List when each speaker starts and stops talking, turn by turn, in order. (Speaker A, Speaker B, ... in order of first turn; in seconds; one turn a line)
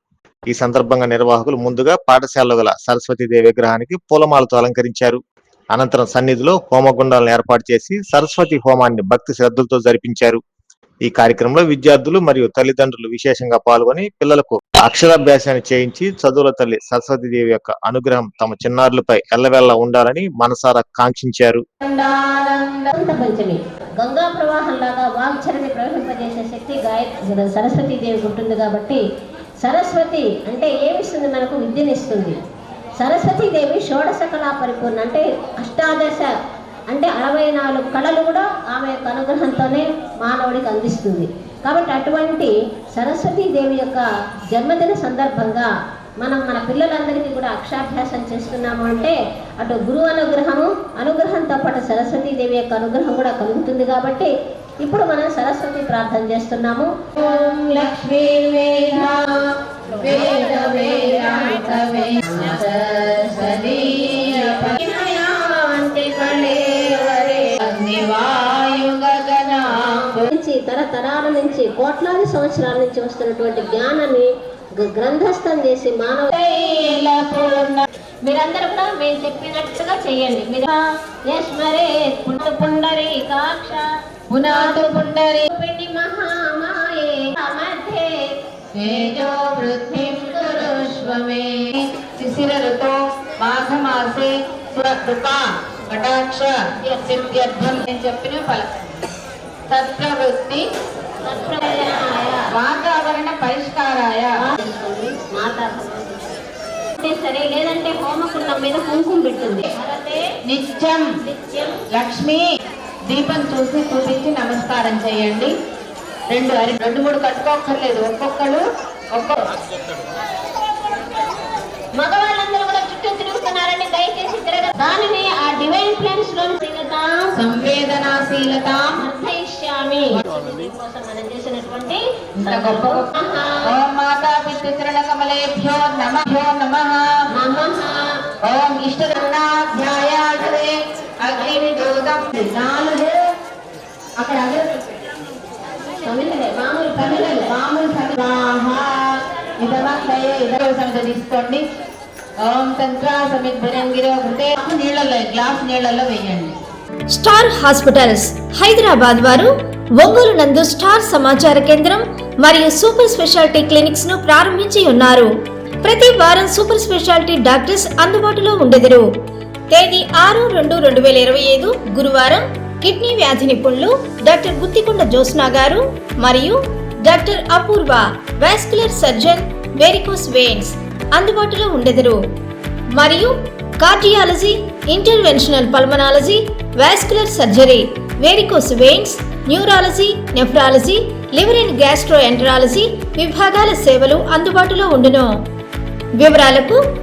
Speaker A: 0.5-5.2
Speaker A: 5.7-10.4
Speaker A: 11.1-21.6
Speaker B: 21.8-22.9
Speaker C: 22.9-29.0
Speaker C: 29.6-32.4
Speaker C: 33.0-36.3
Speaker C: 36.9-45.7
Speaker C: 46.2-54.3
Speaker C: 54.8-56.9
Speaker B: 57.2-59.4
Speaker B: 60.0-64.8
Speaker C: 64.8-67.4
Speaker B: 67.6-70.3
Speaker C: 70.3-74.3
Speaker C: 74.8-76.4
Speaker B: 76.3-77.9
Speaker C: 78.2-80.8
Speaker C: 81.3-83.8
Speaker B: 84.3-85.5
Speaker C: 84.5-85.0
Speaker C: 85.5-88.3
Speaker B: 88.8-98.7
Speaker B: 99.7-100.6
Speaker C: 101.3-102.5
Speaker B: 102.5-104.3
Speaker C: 104.4-106.4
Speaker C: 107.0-110.2
Speaker B: 110.5-111.1
Speaker C: 111.4-111.7
Speaker B: 111.9-112.4
Speaker B: 113.1-115.5
Speaker B: 116.3-118.6
Speaker B: 119.1-119.4
Speaker C: 122.0-127.3
Speaker B: 127.4-128.9
Speaker C: 129.0-133.6
Speaker B: 132.4-133.1
Speaker B: 133.7-137.1
Speaker C: 137.3-138.1
Speaker B: 138.4-143.3
Speaker B: 144.2-144.8
Speaker C: 146.0-147.5
Speaker B: 147.0-151.6
Speaker B: 152.4-156.5
Speaker D: 157.1-165.3
Speaker D: 165.8-169.1
Speaker D: 169.7-182.2
Speaker D: 183.0-195.3
Speaker D: 196.2-196.8